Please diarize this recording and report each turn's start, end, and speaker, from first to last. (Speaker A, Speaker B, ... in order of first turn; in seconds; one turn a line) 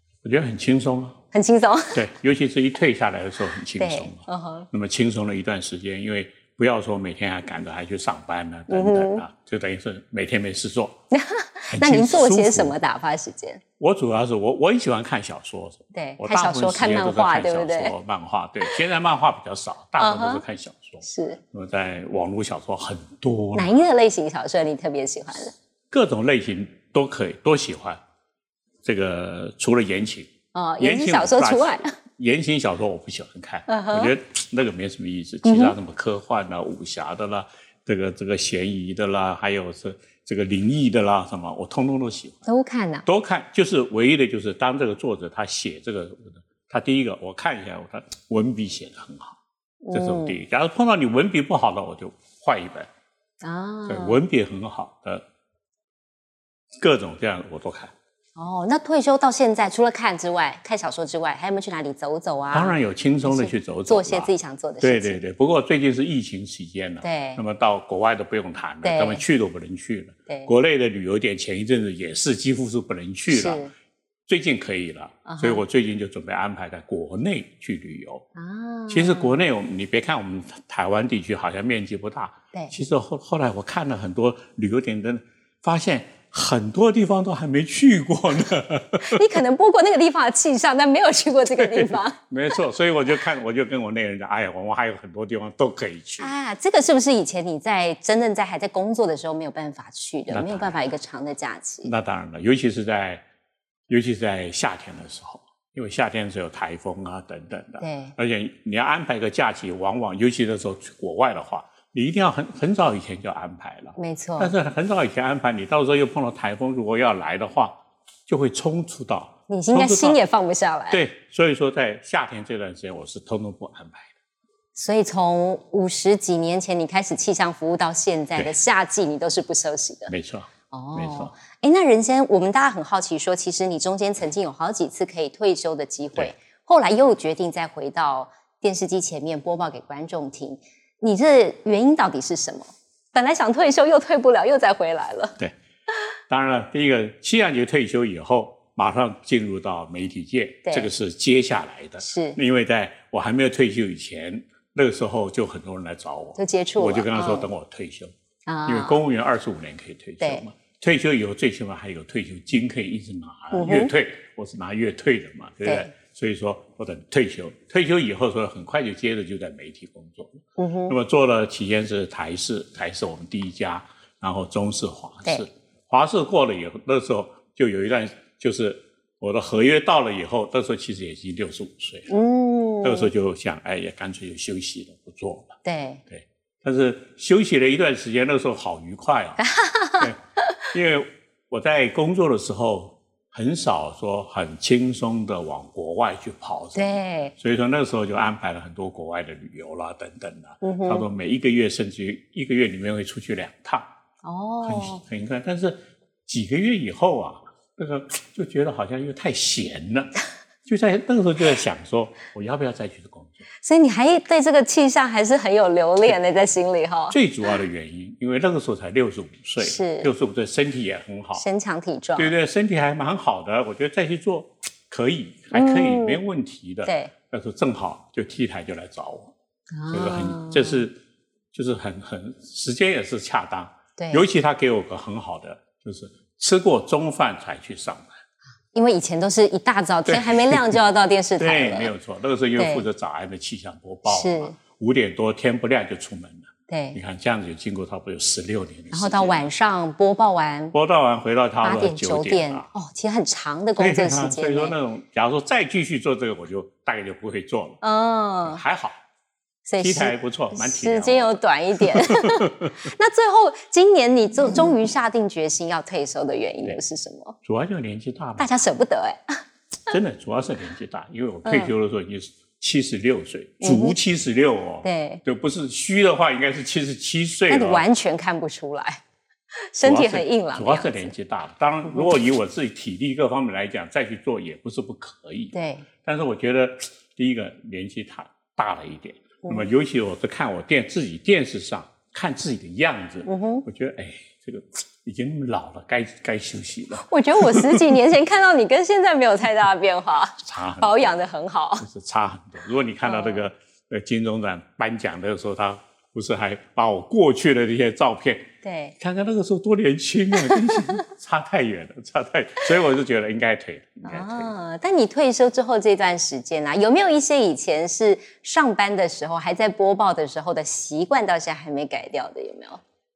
Speaker A: 0.2-1.2
Speaker B: 1.3-2.0
Speaker A: 1.9-11.0
Speaker B: 3.8-4.7
Speaker B: 8.7-9.3
Speaker B: 11.1-13.6
Speaker A: 11.7-12.8
Speaker A: 13.8-23.8
Speaker B: 15.9-17.9
Speaker B: 20.0-20.4
Speaker B: 21.0-21.4
Speaker B: 23.6-25.6
Speaker A: 25.9-28.0
Speaker A: 28.9-42.4
Speaker B: 30.5-31.9
Speaker B: 33.7-34.1
Speaker B: 35.4-35.8
Speaker B: 42.5-43.1
Speaker A: 43.0-49.4
Speaker B: 49.8-50.4
Speaker A: 49.9-52.9
Speaker B: 53.4-54.2
Speaker A: 53.9-55.2
Speaker A: 56.8-57.9
Speaker B: 58.4-65.2
Speaker A: 62.5-73.7
Speaker B: 67.0-67.4
Speaker B: 68.8-69.2
Speaker B: 73.3-73.7
Speaker A: 74.3-78.3
Speaker B: 75.3-75.6
Speaker B: 78.4-79.3
Speaker A: 78.9-89.2
Speaker B: 89.0-92.2
Speaker A: 91.6-96.3
Speaker B: 96.2-101.9
Speaker A: 100.3-100.8
Speaker A: 101.8-103.2
Speaker A: 103.9-120.2
Speaker B: 107.8-108.1
Speaker B: 114.0-114.5
Speaker B: 119.5-121.0
Speaker A: 120.9-124.1
Speaker B: 124.8-130.1
Speaker A: 130.1-131.3
Speaker B: 130.7-145.4
Speaker A: 146.3-158.1
Speaker B: 152.0-152.4
Speaker B: 156.4-157.5
Speaker B: 158.5-159.0
Speaker A: 158.7-182.1
Speaker B: 163.5-163.9
Speaker B: 165.6-165.9
Speaker B: 170.6-170.9
Speaker B: 182.1-183.1
Speaker A: 182.8-185.6
Speaker B: 185.7-186.0
Speaker A: 186.1-203.9
Speaker B: 189.4-190.1
Speaker B: 196.8-197.3
Speaker B: 200.6-201.1
Speaker B: 204.2-205.0
Speaker A: 204.6-210.1
Speaker A: 210.7-213.5
Speaker B: 213.6-217.2
Speaker A: 217.1-221.5
Speaker B: 219.6-220.1
Speaker B: 221.3-222.3
Speaker A: 222.2-229.3
Speaker B: 225.5-226.2
Speaker B: 226.8-227.1
Speaker B: 229.7-230.8
Speaker A: 229.9-231.0
Speaker A: 231.5-238.2
Speaker B: 234.0-234.2
Speaker B: 238.7-241.9
Speaker A: 240.1-240.8
Speaker A: 241.4-249.4
Speaker B: 242.6-242.9
Speaker B: 244.1-244.6
Speaker B: 246.7-247.0
Speaker B: 248.9-250.8
Speaker A: 250.7-252.7
Speaker B: 251.6-254.7
Speaker A: 253.8-257.8
Speaker B: 257.8-258.6
Speaker A: 258.4-259.0
Speaker B: 259.7-267.4
Speaker A: 259.8-262.8
Speaker A: 267.4-268.5
Speaker B: 268.4-269.4
Speaker A: 269.9-277.9
Speaker B: 271.4-271.7
Speaker B: 273.6-274.0
Speaker B: 274.8-275.2
Speaker B: 277.5-279.0
Speaker B: 279.6-281.1
Speaker A: 279.8-298.0
Speaker B: 285.5-285.9
Speaker B: 293.3-293.7
Speaker B: 297.0-301.9
Speaker A: 300.4-301.1
Speaker A: 301.8-314.5
Speaker B: 303.0-303.5
Speaker B: 308.6-309.0
Speaker B: 310.3-311.0
Speaker B: 314.1-322.8